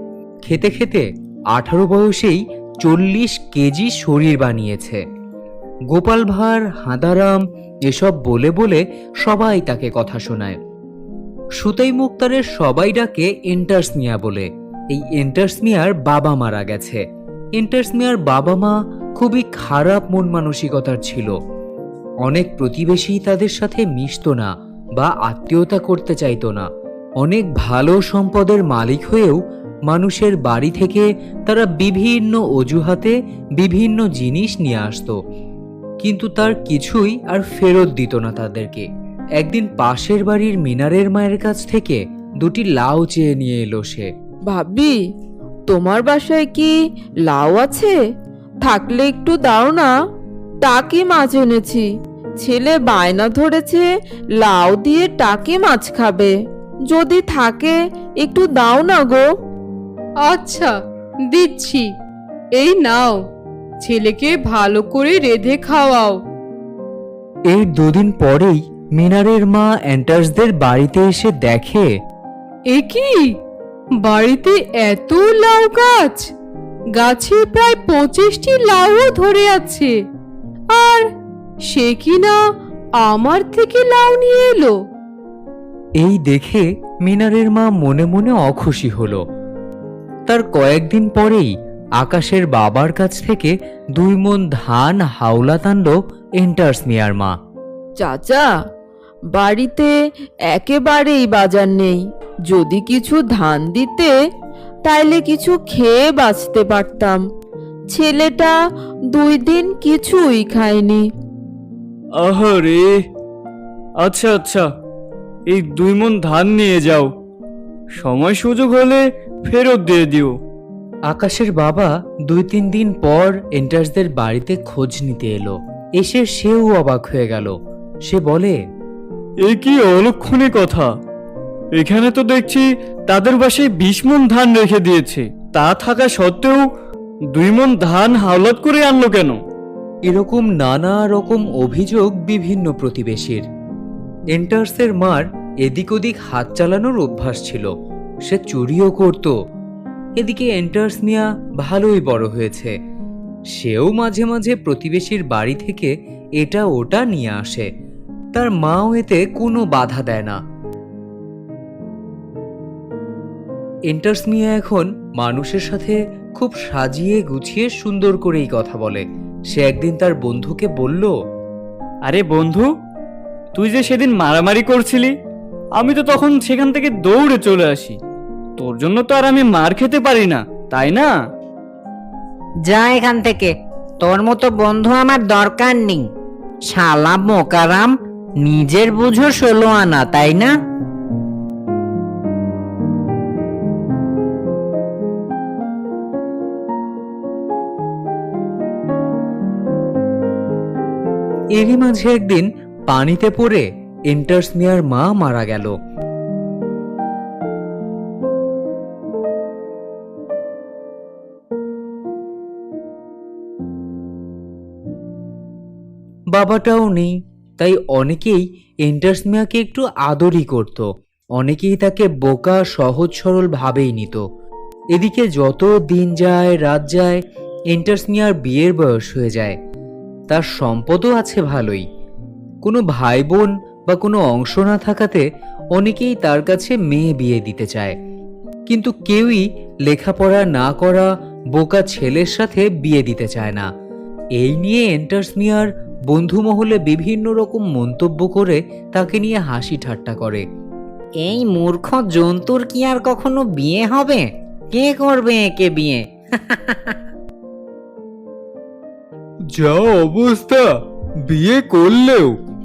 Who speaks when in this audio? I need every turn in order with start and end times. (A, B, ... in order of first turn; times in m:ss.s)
0:00.4-0:05.0 A
0:05.9-0:10.6 A
0:11.6-0:17.0 A
0:17.6-0:21.3 A
0:22.2-0:26.6 A
0:27.2-0:35.2 A
0:36.0-0:38.8 A
0:39.4-0:44.1 A
0:44.5-0:45.0 B
0:45.7-0:46.7 B
0:47.3-0:48.0 B
0:48.6-0:49.9 B
0:50.6-0:51.9 B
0:52.4-0:56.3 B
0:56.9-0:59.3 B
1:00.2-1:00.7 C
1:01.3-1:01.9 C
1:02.5-1:03.2 C
1:03.8-1:06.2 C
1:07.5-1:11.9 A
1:12.7-1:13.3 C
1:14.0-1:16.3 C
1:17.0-1:19.9 C
1:20.7-1:21.0 C
1:21.6-1:22.4 C
1:23.0-1:24.8 C
1:26.0-1:29.2 A
1:30.3-1:37.3 A
1:38.0-1:38.5 B
1:39.3-1:39.9 B
1:40.5-1:44.1 B
1:44.9-1:47.2 B
1:47.9-1:48.5 B
1:49.1-1:51.0 B
1:52.2-1:52.9 D
1:54.0-1:54.6 D
1:55.5-1:57.1 D
1:58.0-2:00.3 D
2:01.1-2:07.5 A
2:08.0-2:08.6 A
2:09.4-2:10.9 D
2:11.8-2:16.6 D
2:17.3-2:19.4 D
2:20.0-2:23.4 A
2:24.3-2:27.7 A
2:28.3-2:29.3 A
2:30.2-2:32.7 A
2:33.5-2:37.7 A
2:38.3-2:40.4 A
2:43.9-2:51.1 A
2:52.1-2:52.7 D
2:53.5-2:55.1 D
2:55.8-2:58.0 D
2:58.6-3:01.1 D
3:02.6-3:06.1 E
3:06.7-3:10.5 E
3:21.6-3:25.7 A
3:36.3-3:44.2 A
3:44.9-3:47.2 A
3:47.7-3:49.6 A
3:50.3-3:51.8 A
3:52.6-3:58.0 A
3:58.7-4:03.7 A
4:04.4-4:10.4 A
4:11.2-4:17.0 E
4:19.5-4:20.6 A
4:21.3-4:22.3 A